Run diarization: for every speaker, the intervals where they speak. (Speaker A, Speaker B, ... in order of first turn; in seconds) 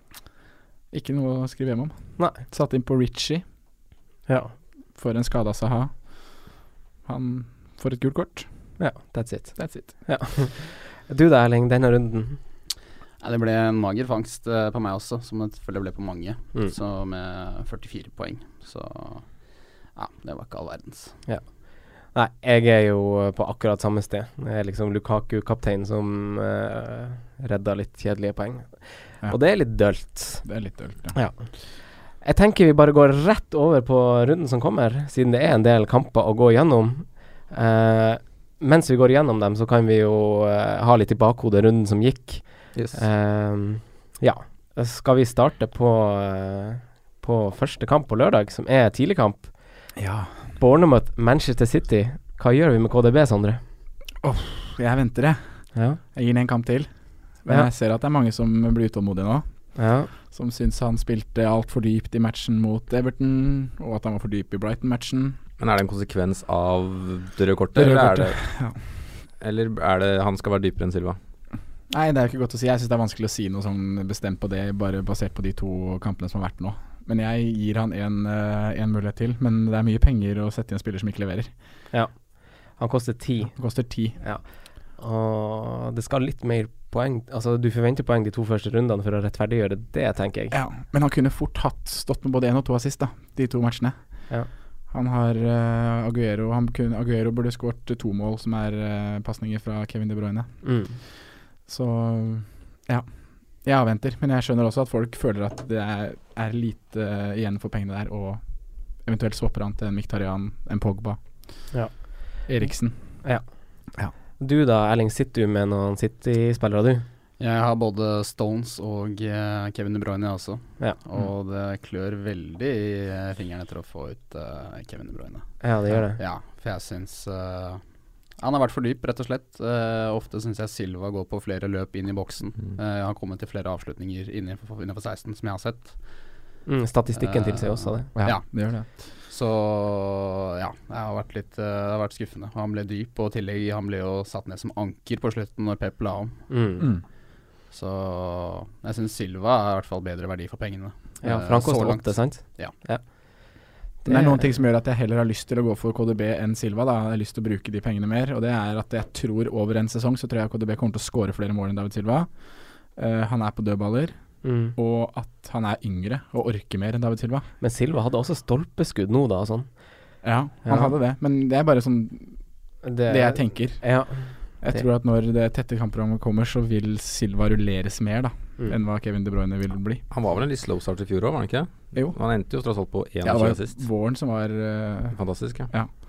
Speaker A: 0.9-3.4, 5.0-8.8, 9.6-10.0, 29.2-31.2, 50.0-50.4, 54.2-55.4, 56.1-65.4, 67.7-68.8, 71.9-81.5, 83.5-84.2, 90.5-94.3, 94.9-101.0, 101.7-111.7, 112.5-113.2, 138.2-138.9, 154.1-167.5, 170.2-172.4, 173.1-180.0, 181.9-182.5, 183.2-185.9
Speaker B: 4.3-4.5, 8.8-12.4, 21.2-30.5, 31.1-31.5, 32.2-49.5, 50.5-53.6, 59.8-60.1, 81.9-90.5, 100.6-101.0, 111.7-112.5, 114.4-117.0, 125.6-126.2, 136.7-138.1, 146.5-146.9, 151.2-154.6, 164.4-164.7, 167.6-169.7, 170.6-170.9, 172.8-174.8
Speaker C: 13.2-21.2, 117.4-127.8, 128.3-136.1, 137.2-146.5, 147.7-152.7
Speaker D: 42.7-43.0, 65.6-68.4, 69.4-71.2, 180.1-183.8, 185.1-185.7